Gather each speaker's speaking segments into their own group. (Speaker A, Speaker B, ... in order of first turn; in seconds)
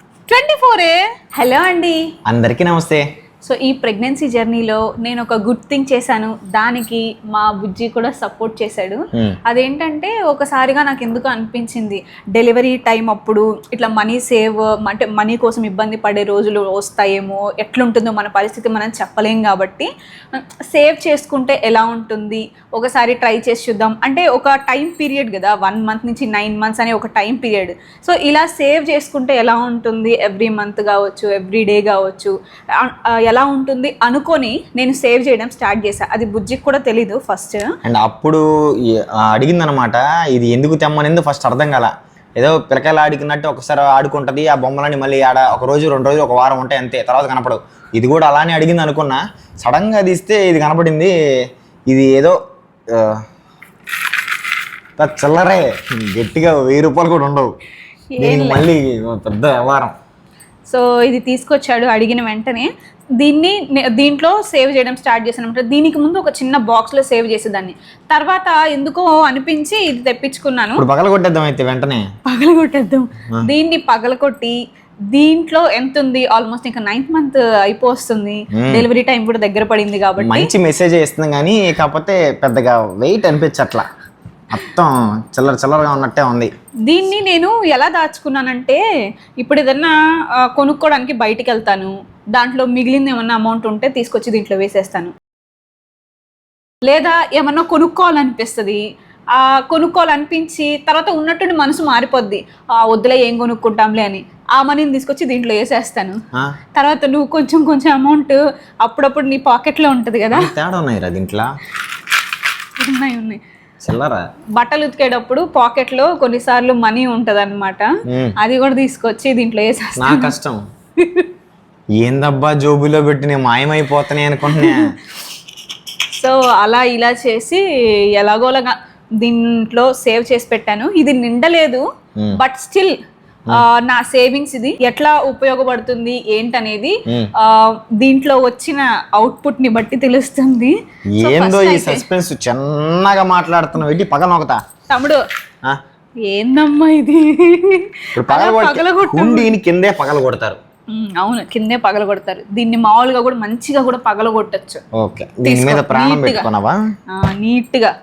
Speaker A: 0.3-2.0, 3.4-37.7, 58.1-58.7, 60.7-62.7, 63.2-70.8, 72.3-74.6, 75.1-80.5, 86.9-88.8, 89.4-95.1, 96.8-106.2, 106.8-110.5, 112.8-113.4, 114.6-117.9, 118.4-120.3, 121.0-121.3, 124.5-124.9, 126.1-127.6, 128.2-131.8, 132.4-132.9, 133.5-142.1, 144.9-145.2, 146.3-149.5, 150.9-154.8, 155.4-156.5, 157.1-157.9
Speaker B: 2.3-3.0, 37.9-51.1, 51.9-52.4, 52.9-53.2, 55.0-57.5, 58.2-60.0, 70.8-72.0, 78.5-78.9, 80.2-83.9, 84.5-86.5, 110.3-111.5, 113.8-114.2, 118.1-118.3, 120.0-120.6, 122.0-125.0, 141.2-144.6, 148.2-150.6, 155.0-156.8